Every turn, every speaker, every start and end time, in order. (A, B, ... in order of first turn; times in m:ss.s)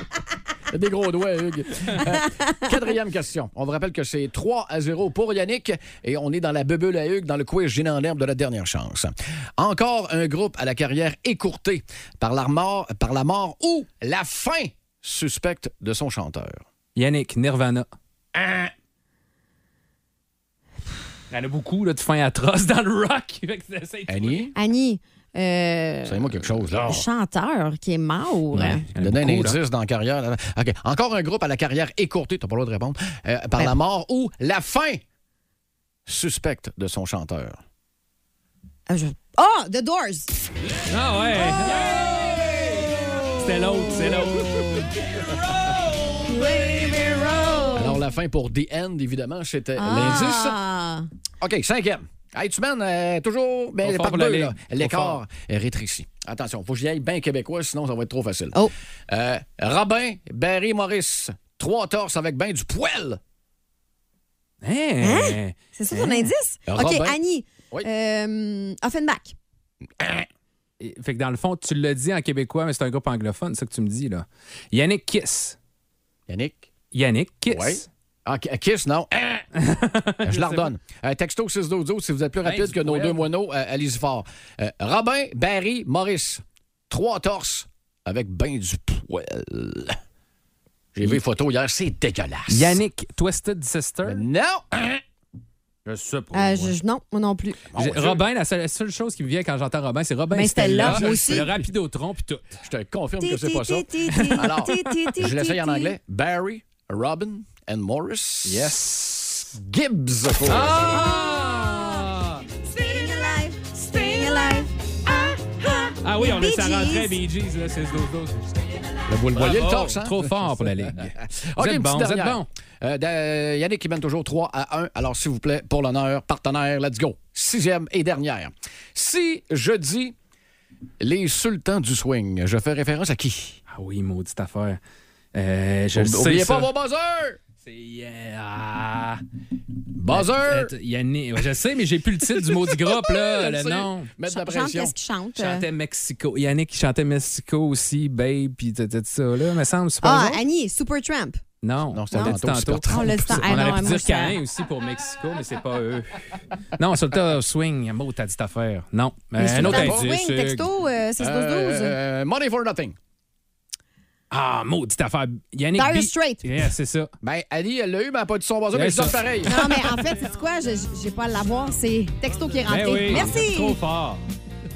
0:00.7-0:16.6 A
0:17.0-0:17.9 B
0:18.4-0:18.7 A
0:21.3-0:24.5 B
0:24.1-0:24.5 A
0:24.6-0:26.3 C
0:26.0-0:27.0 A
0:26.8-0:28.8 C
0:28.5-0:29.6 B
0:29.0-0:35.0 A
0:36.1-0:37.6 A
0:38.9-0:40.3 C
0:40.9-0:46.2 B
0:41.6-0:41.9 C
0:42.8-0:44.1 C
0:46.2-0:48.0 C
0:47.8-0:50.6 A
0:49.8-0:51.1 C
0:51.4-1:03.2 A
0:53.8-0:55.2 B
1:04.6-1:06.3 B
1:05.0-1:09.4 C
1:06.7-1:07.2 A
1:10.0-1:10.3 A
1:10.8-1:15.6 B
1:16.3-1:16.7 A
1:16.9-1:17.9 B
1:17.5-1:19.5 A
1:19.6-1:20.7 B
1:20.2-1:30.0 A
1:22.4-1:23.2 B
1:30.9-1:32.8 A
1:32.5-1:34.2 B
1:34.1-1:35.0 A
1:35.9-1:36.8 B
1:36.3-1:37.6 C
1:37.7-1:38.2 A
1:37.8-1:42.6 B
1:40.3-1:41.5 C
1:40.8-1:41.6 A
1:42.6-1:51.0 A
1:43.2-1:45.9 C
1:44.2-1:44.5 B
1:48.4-1:49.3 B
1:50.5-1:52.4 B
1:50.9-1:52.1 C
1:52.6-1:57.2 C
1:56.0-1:58.7 B
1:59.1-2:10.2 A
1:59.3-2:02.5 B
2:11.0-2:13.6 A
2:13.7-2:14.8 B
2:15.3-2:16.7 B
2:15.9-2:17.4 A
2:17.6-2:19.2 B
2:20.0-2:20.7 A
2:20.1-2:24.1 B
2:22.4-2:25.0 A
2:24.3-2:25.7 C
2:25.4-2:30.4 B
2:30.0-2:31.4 C
2:31.6-2:40.7 B
2:31.9-2:33.5 A
2:32.9-2:34.4 C
2:39.4-2:42.0 C
2:39.5-2:40.1 A
2:41.2-2:43.0 A
2:44.3-2:47.1 B
2:45.8-2:46.5 C
2:47.2-2:49.6 A
2:48.7-2:49.2 B
2:49.5-2:53.8 C
2:52.7-2:54.2 B